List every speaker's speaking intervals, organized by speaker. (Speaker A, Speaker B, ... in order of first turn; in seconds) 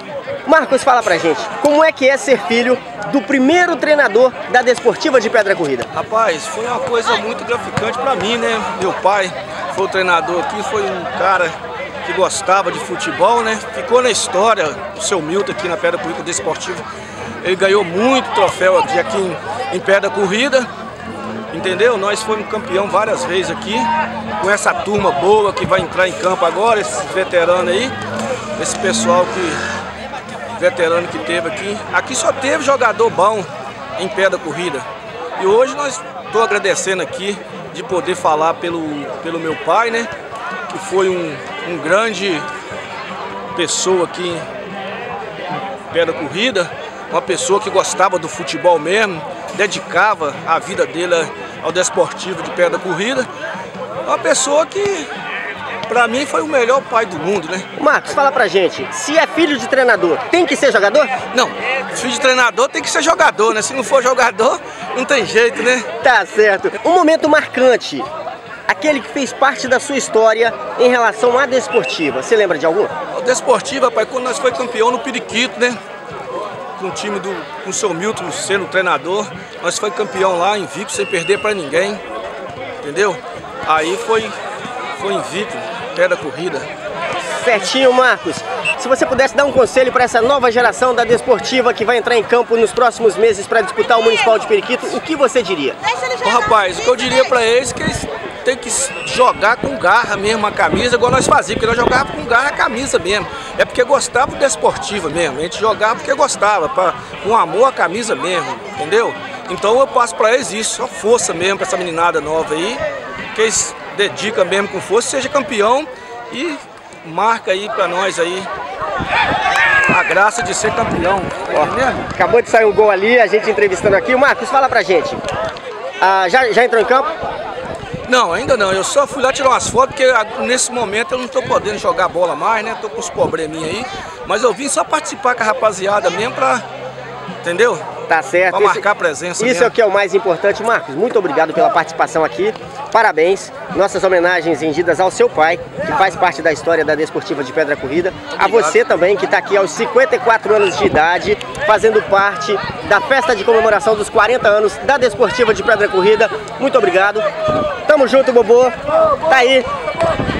Speaker A: 0.5-5.9, 57.8-61.2, 66.0-68.1, 68.7-72.9, 87.3-95.8, 121.5-125.2, 126.0-127.1, 138.1-138.8, 139.4-157.2, 157.8-159.7
Speaker B: 5.9-16.8, 17.4-20.7, 21.5-23.9, 24.4-27.9, 28.6-29.6, 30.6-34.9, 35.4-40.1, 40.7-42.5, 43.5-44.5, 45.9-53.3, 54.0-55.1, 55.9-57.7, 61.3-65.9, 73.1-75.8, 76.8-82.0, 82.8-84.3, 85.0-86.7, 96.1-112.8, 113.3-118.5, 119.9-122.0, 128.1-136.6, 137.4-137.8, 138.5-139.7, 148.3-148.7